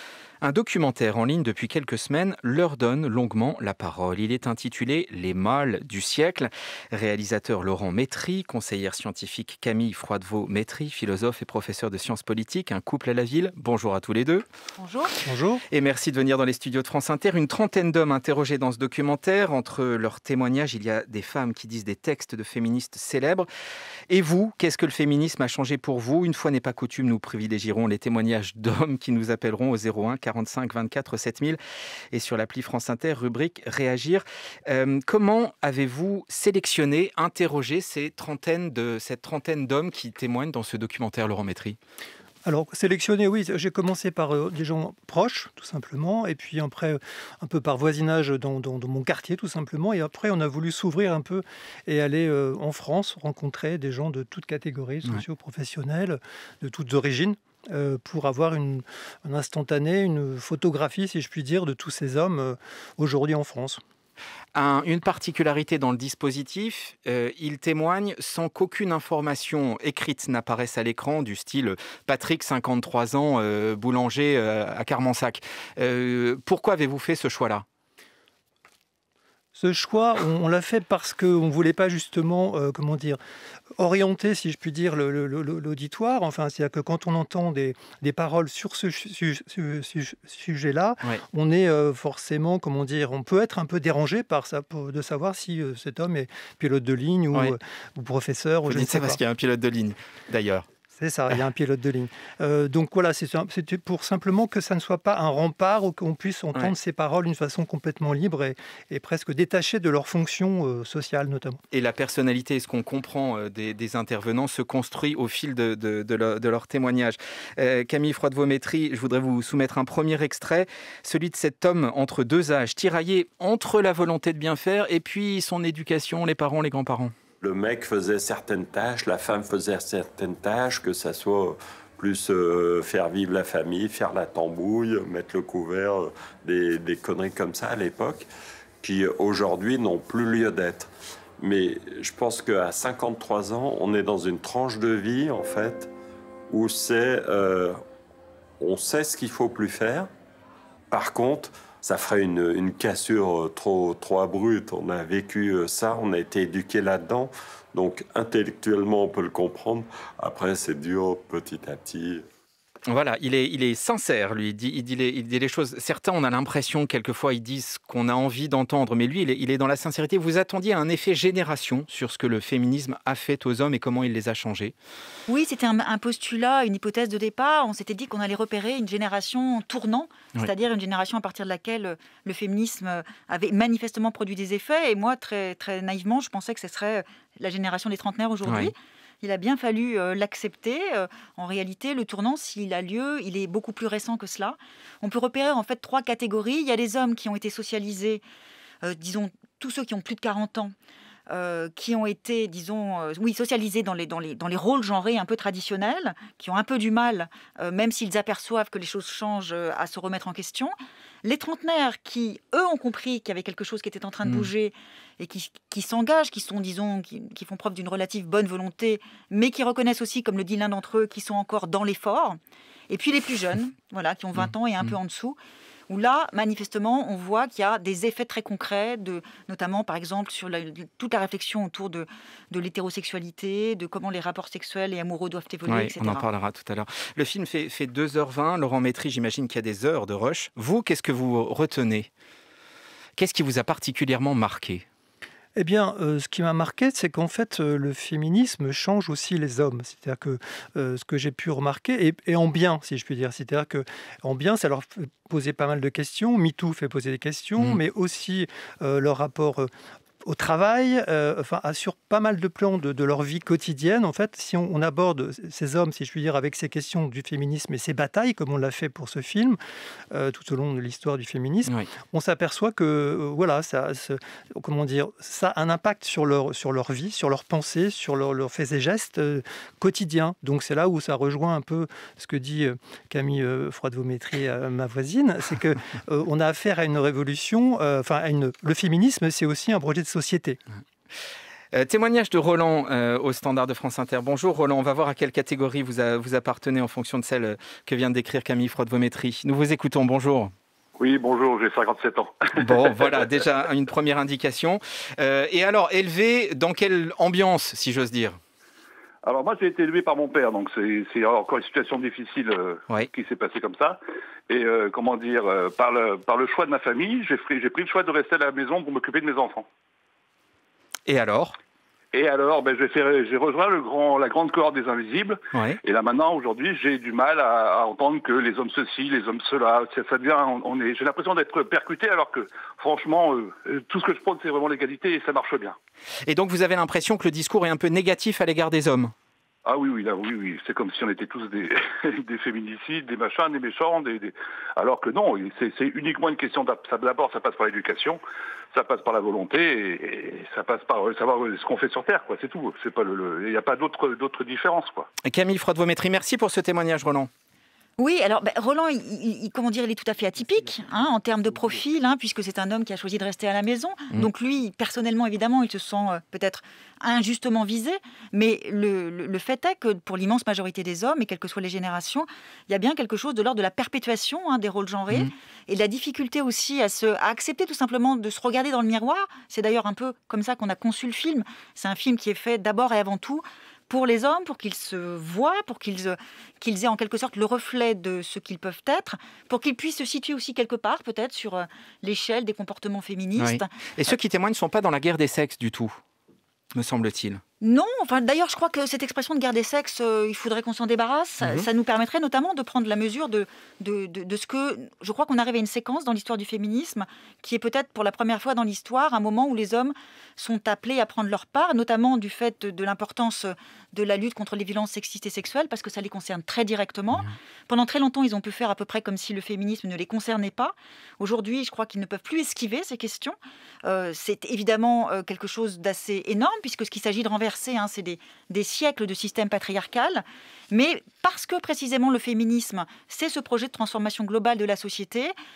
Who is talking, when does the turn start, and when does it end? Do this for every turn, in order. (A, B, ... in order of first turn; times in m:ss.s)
0:00.4-0:14.4 A
0:14.8-0:15.1 B
0:15.2-0:15.6 C
0:15.7-0:23.5 A
0:24.1-0:31.6 A
0:32.1-0:41.8 A
0:42.4-1:03.8 C
1:04.5-1:17.6 A
1:19.6-1:23.2 C
1:23.8-1:39.2 C
1:38.6-1:40.6 A
1:41.0-1:51.6 C
1:51.7-2:07.1 A
2:07.4-2:18.3 D
2:18.8-2:25.9 D
2:26.5-2:27.8 D
2:28.6-2:30.1 D
2:30.9-2:42.2 D
2:42.9-2:54.7 A
2:55.3-3:18.2 B
3:08.4-3:08.7 A
3:18.8-3:20.7 B
3:21.3-3:42.4 B
3:34.2-3:34.5 A
3:42.9-3:45.4 B
3:45.9-3:56.2 B
3:55.7-4:02.1 A
4:03.2-4:04.8 A
4:05.6-4:19.7 C
4:20.2-4:29.6 C
4:30.1-4:50.6 C
4:51.7-5:00.5 A
5:01.0-5:02.8 E
5:02.6-5:08.4 A
5:09.2-5:19.6 E
5:21.1-5:21.5 A
5:22.1-5:35.8 E
5:25.5-5:25.8 A
5:36.2-5:39.1 A
5:39.6-5:48.2 E
5:48.7-5:55.0 E
5:55.2-5:57.3 A
5:58.0-6:33.7 B
6:33.4-6:36.0 A
6:36.7-6:37.4 A
6:37.6-7:15.3 B